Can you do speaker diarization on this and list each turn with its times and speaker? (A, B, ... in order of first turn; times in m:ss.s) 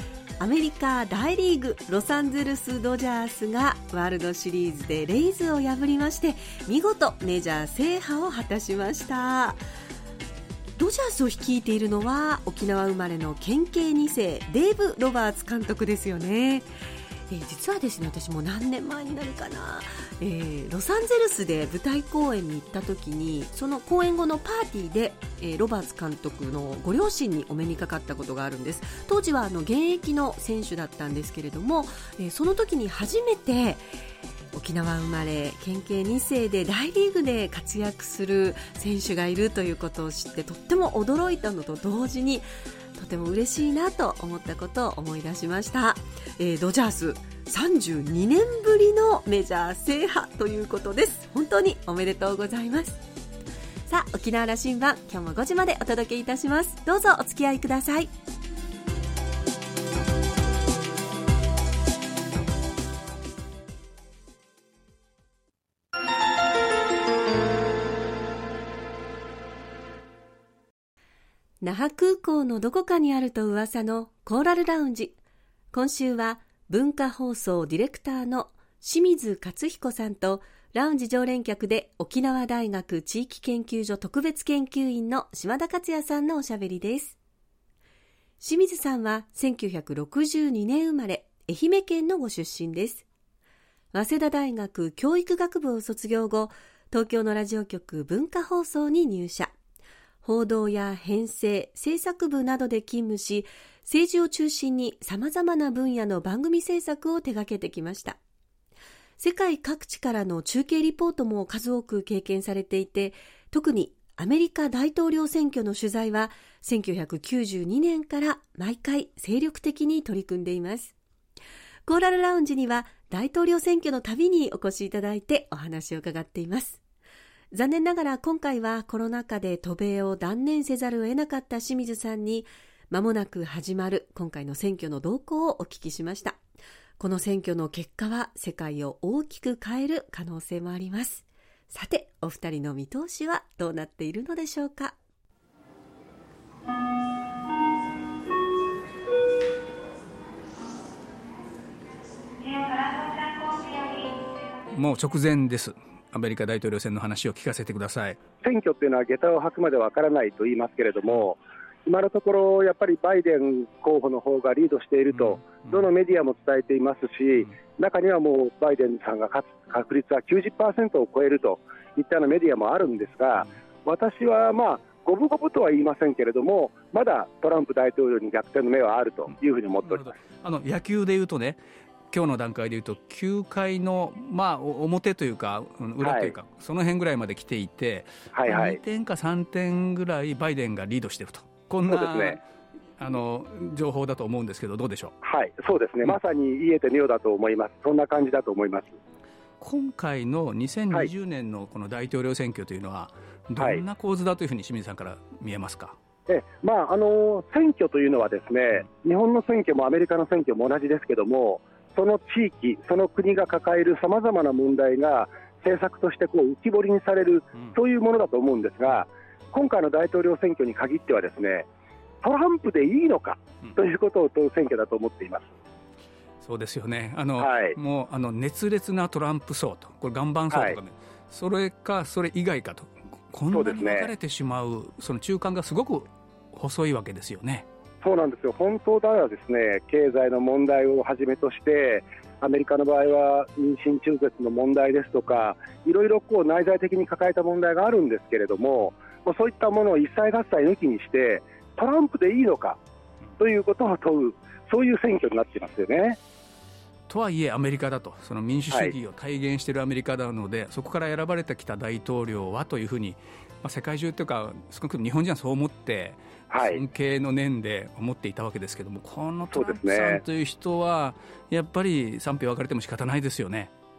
0:00.4-0:09.6 A
0:10.8-0:16.7 A
0:17.3-0:33.8 A
0:34.5-0:53.0 A
0:53.9-0:58.1 A
1:11.6-1:15.2 A
1:15.7-1:27.2 A
1:28.4-1:33.0 A
1:33.9-1:39.5 A
1:40.2-1:48.2 A
1:49.2-2:00.9 A
2:01.9-2:06.8 A
2:07.5-2:16.4 A
2:17.0-2:24.9 A
2:32.3-2:34.4 A
2:34.7-2:38.2 B
2:38.4-3:00.1 C
2:45.1-2:45.9 B
2:59.8-3:01.6 B
3:02.1-3:12.4 B
3:06.0-3:06.3 C
3:08.3-3:08.8 C
3:11.9-3:12.4 C
3:13.0-3:15.1 B
3:15.2-3:19.0 C
3:19.6-3:26.0 B
3:23.6-3:23.8 C
3:26.3-3:41.7 C
3:42.2-3:45.5 C
3:46.4-3:57.7 B
3:47.4-3:47.8 C
3:50.5-3:50.8 C
3:53.5-3:54.1 C
3:58.0-4:12.8 C
4:13.4-4:16.2 C
4:17.1-4:33.7 B
4:26.5-4:26.8 C
4:29.5-4:30.2 C